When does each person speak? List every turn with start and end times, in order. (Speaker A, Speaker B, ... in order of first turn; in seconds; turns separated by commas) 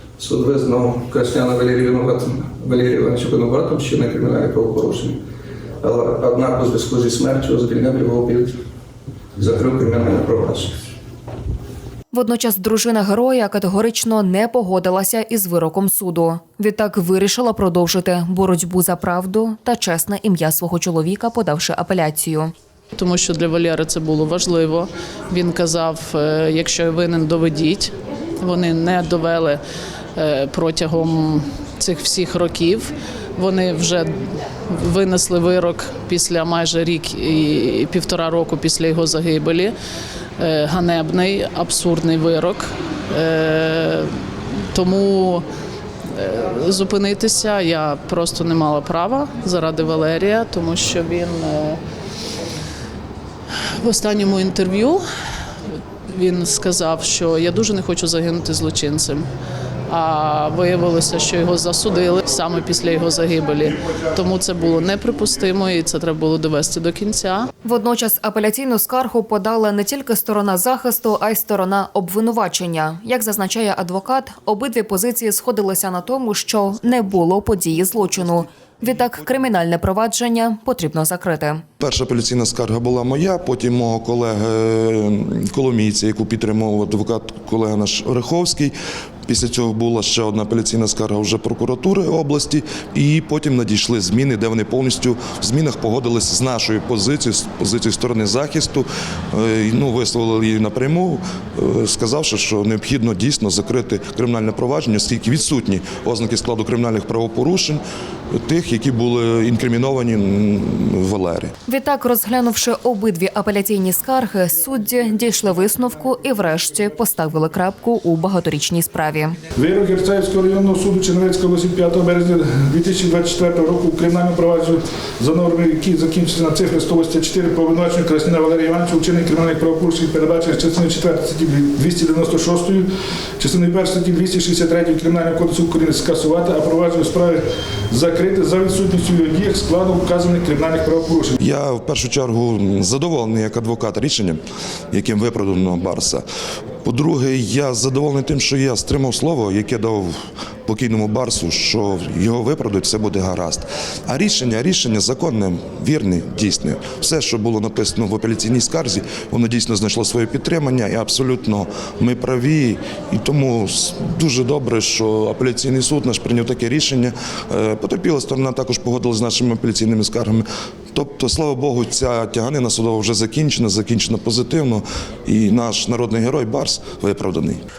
Speaker A: 0.2-5.2, Speaker A: 5.8-8.5, Speaker A: 9.4-10.7, Speaker B: 12.1-22.5, Speaker C: 22.9-29.6, Speaker C: 30.1-39.7, Speaker C: 40.4-45.4, Speaker C: 46.1-51.8, Speaker C: 53.8-55.0, Speaker C: 56.1-59.2, Speaker C: 59.9-67.5, Speaker B: 67.6-81.6, Speaker D: 81.8-88.7, Speaker D: 89.3-107.8, Speaker D: 108.3-111.5, Speaker B: 111.7-119.4, Speaker E: 119.5-141.4, Speaker D: 141.4-144.4, Speaker D: 144.9-146.2, Speaker D: 146.8-177.6